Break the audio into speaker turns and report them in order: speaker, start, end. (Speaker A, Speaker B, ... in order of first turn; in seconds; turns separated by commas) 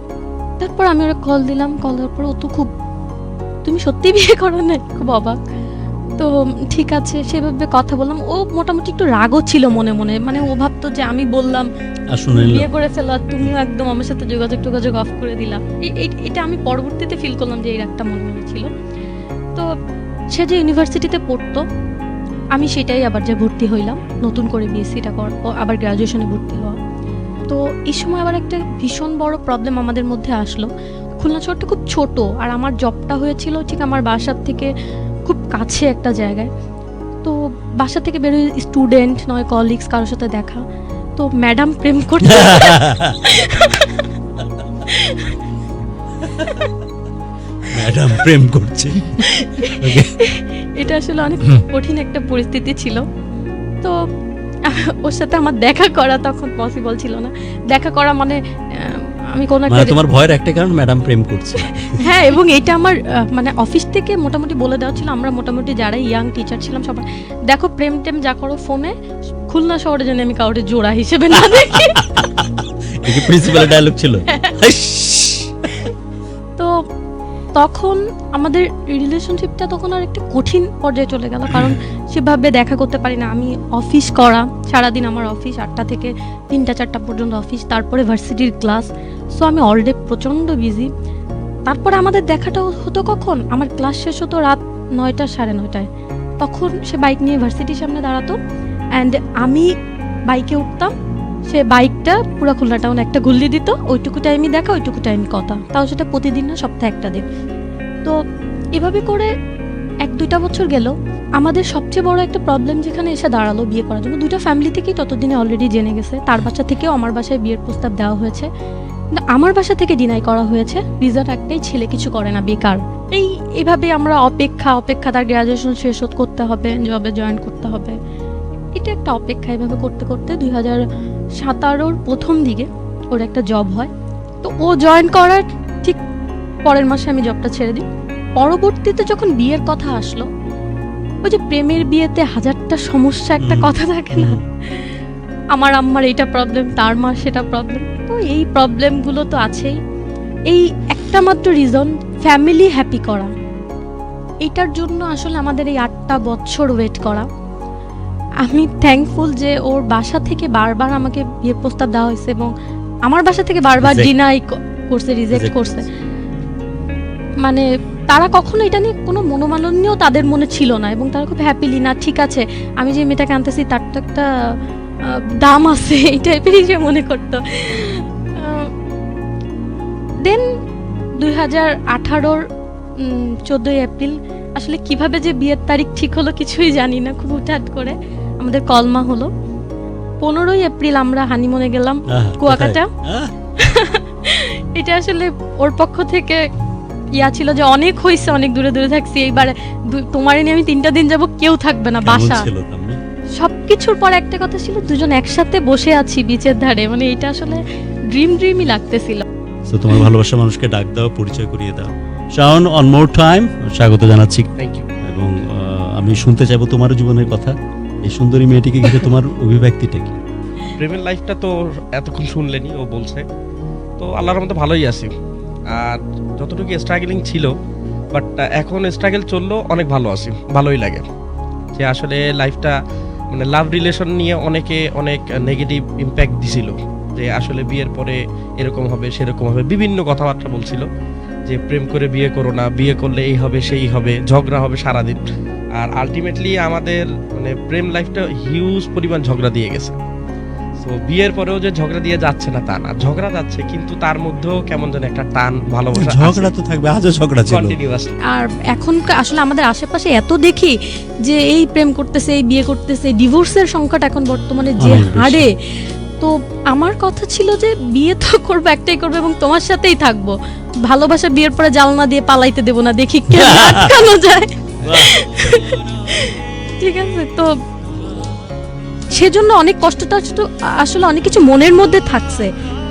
Speaker A: 0.6-2.7, Speaker A: 3.6-5.4, Speaker A: 6.2-11.7, Speaker B: 12.1-12.7, Speaker A: 12.3-18.7, Speaker A: 20.3-21.6, Speaker A: 22.6-26.8, Speaker A: 27.5-34.7, Speaker A: 35.3-36.5, Speaker A: 37.2-40.6, Speaker A: 41.2-44.1, Speaker B: 42.2-43.2, Speaker A: 44.8-45.4, Speaker B: 46.3-46.6, Speaker A: 46.3-46.8, Speaker B: 47.6-50.2, Speaker A: 49.2-53.0, Speaker A: 54.6-60.0, Speaker B: 59.7-62.0, Speaker A: 62.0-68.9, Speaker A: 69.5-72.2, Speaker B: 71.5-75.7, Speaker A: 73.2-73.8, Speaker A: 74.3-74.6, Speaker A: 77.6-90.9, Speaker A: 91.7-95.9, Speaker A: 96.4-98.4, Speaker A: 99.0-99.7, Speaker A: 100.3-100.9, Speaker A: 101.5-107.3, Speaker A: 108.8-109.3, Speaker A: 110.0-118.5, Speaker A: 119.2-128.0, Speaker A: 128.8-130.8, Speaker A: 131.4-133.9, Speaker A: 134.4-136.0, Speaker A: 136.7-137.8, Speaker A: 138.4-140.3, Speaker A: 141.2-144.9, Speaker B: 143.4-144.4, Speaker A: 145.5-149.8, Speaker A: 150.5-153.3, Speaker A: 154.4-157.3, Speaker A: 158.4-162.5, Speaker A: 163.1-165.9, Speaker B: 163.8-164.1, Speaker B: 165.3-165.8, Speaker A: 167.4-174.3, Speaker A: 175.4-178.7, Speaker A: 181.2-182.4, Speaker A: 183.0-189.3, Speaker A: 190.2-192.9, Speaker B: 192.1-193.3, Speaker A: 193.6-196.4, Speaker A: 197.2-202.5, Speaker B: 202.0-203.0, Speaker A: 203.4-209.2, Speaker B: 209.7-214.5, Speaker C: 214.6-214.9, Speaker B: 215.0-220.2, Speaker C: 220.8-223.3, Speaker C: 224.0-225.1, Speaker C: 225.7-227.5, Speaker C: 228.1-231.1, Speaker C: 231.8-232.8, Speaker C: 233.3-240.9, Speaker C: 241.5-245.2, Speaker C: 245.8-250.0, Speaker C: 250.8-256.5, Speaker B: 255.9-257.8, Speaker C: 257.5-258.1, Speaker A: 258.3-265.5, Speaker B: 264.8-265.5, Speaker A: 266.2-277.5, Speaker B: 273.3-274.0, Speaker B: 274.8-275.2, Speaker A: 279.1-282.5